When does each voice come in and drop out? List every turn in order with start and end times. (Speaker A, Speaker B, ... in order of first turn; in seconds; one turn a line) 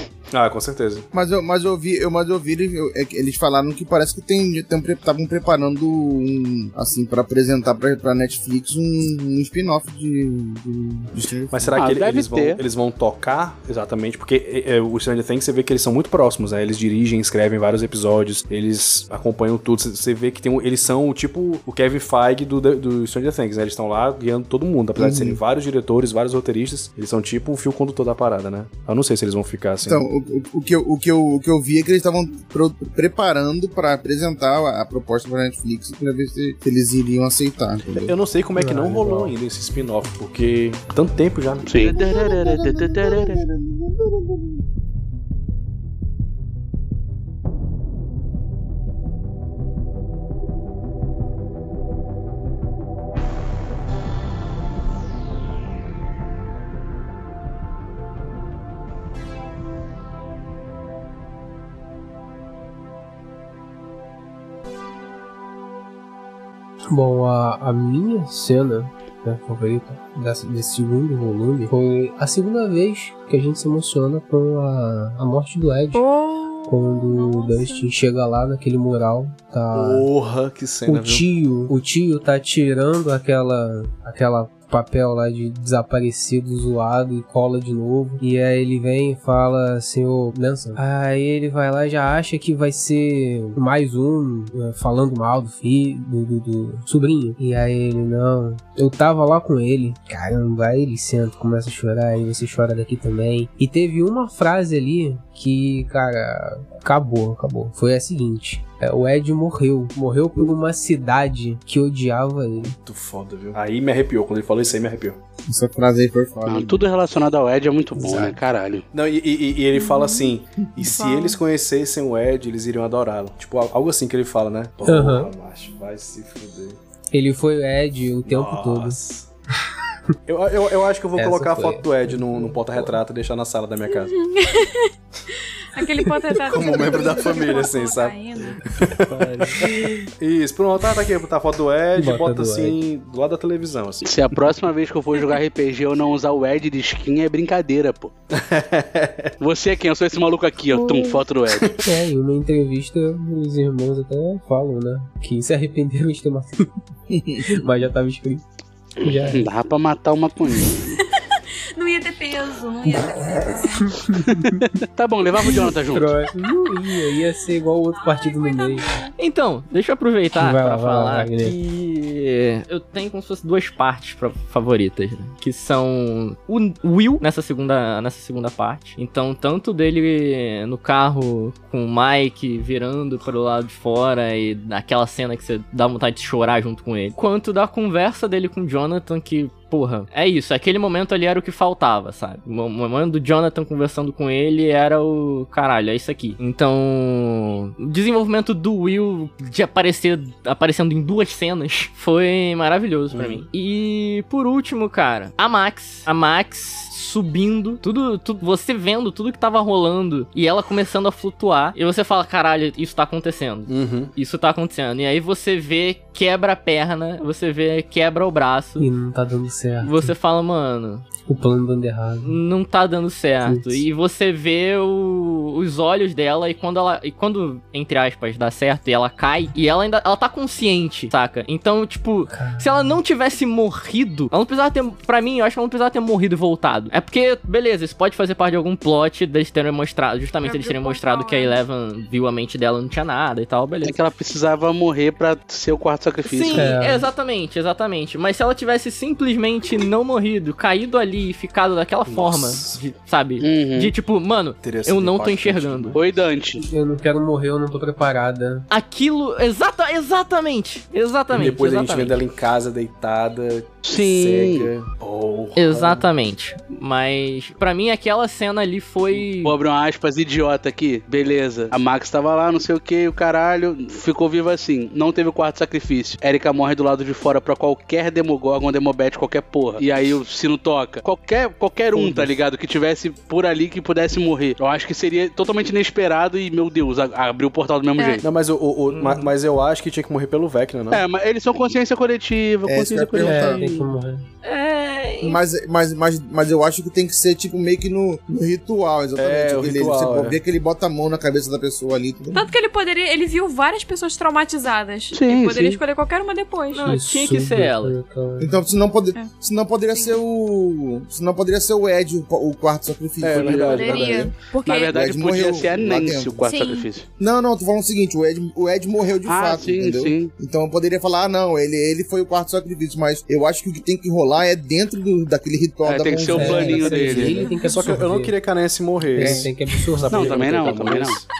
Speaker A: 0.3-1.1
Speaker B: 1.1-11.8
Speaker A: 11.5-30.0
Speaker C: 11.8-12.6
Speaker B: 25.0-25.4
Speaker B: 29.9-38.1
Speaker A: 37.9-41.9
Speaker D: 38.6-39.3
Speaker C: 41.7-43.4
Speaker B: 41.8-44.4
Speaker D: 66.9-76.0
Speaker E: 75.9-77.9
Speaker D: 76.7-80.1
Speaker A: 79.7-81.3
Speaker D: 80.9-112.7
Speaker A: 112.6-115.2
Speaker B: 115.5-116.9
Speaker C: 116.5-118.8
Speaker D: 118.0-118.3
Speaker A: 118.9-126.8
Speaker E: 119.7-120.3
Speaker E: 120.9-121.4
Speaker D: 124.8-125.3
Speaker D: 127.1-129.0
Speaker A: 128.2-129.3
Speaker A: 130.3-134.2
Speaker D: 131.2-133.0
Speaker E: 133.9-134.9
Speaker E: 135.7-138.6
Speaker A: 136.4-138.2
Speaker F: 138.5-139.9
Speaker A: 138.7-144.1
Speaker D: 142.0-142.8
Speaker C: 144.0-148.1
Speaker A: 148.3-149.3
Speaker C: 149.4-151.8
Speaker E: 150.7-151.2
Speaker D: 151.8-156.7
Speaker B: 157.1-157.5
Speaker D: 157.5-158.4
Speaker D: 159.0-159.5
Speaker C: 159.0-161.0
Speaker E: 160.9-164.0
Speaker D: 162.9-164.7
Speaker C: 164.4-166.1
Speaker D: 165.4-168.9
Speaker E: 166.4-167.2
Speaker E: 167.9-169.1
Speaker F: 169.2-218.9
Speaker D: 170.3-171.6
Speaker A: 203.1-203.5
Speaker A: 213.7-214.1
Speaker D: 218.8-220.1
Speaker F: 219.8-221.0
Speaker D: 221.2-222.4
Speaker F: 222.2-243.9
Speaker D: 223.4-223.8
Speaker D: 232.3-233.0
Speaker E: 240.4-241.6
Speaker C: 243.8-246.8
Speaker F: 246.2-256.0
Speaker D: 246.5-247.1
Speaker A: 252.1-252.8
Speaker C: 253.4-253.9
Speaker A: 254.6-256.2
Speaker C: 255.9-256.6
Speaker D: 256.6-258.6
Speaker F: 258.7-262.2
Speaker A: 261.3-266.1
Speaker C: 263.8-264.7
Speaker F: 265.5-269.6
Speaker C: 269.4-288.2
Speaker D: 281.9-282.2
Speaker E: 287.9-288.2
Speaker A: 288.2-291.0
Speaker F: 288.9-289.3
Speaker C: 290.9-293.8
Speaker B: 292.7-293.6
Speaker D: 293.1-294.2
Speaker F: 294.4-295.4
Speaker B: 295.2-302.5
Speaker A: 299.1-300.4
Speaker E: 302.3-307.0
Speaker C: 305.1-305.8
Speaker F: 306.7-307.9
Speaker D: 306.8-308.6
Speaker B: 308.4-314.3
Speaker E: 309.9-310.2
Speaker A: 313.2-314.2
Speaker C: 313.3-313.8
Speaker E: 313.6-315.1
Speaker C: 314.6-317.1
Speaker B: 314.9-316.5
Speaker E: 316.4-316.9
Speaker B: 317.2-327.3
Speaker C: 319.2-320.3
Speaker C: 325.8-327.4
Speaker D: 326.2-328.4
Speaker A: 327.1-331.3
Speaker E: 327.4-327.9
Speaker D: 329.1-330.7
Speaker C: 330.1-331.2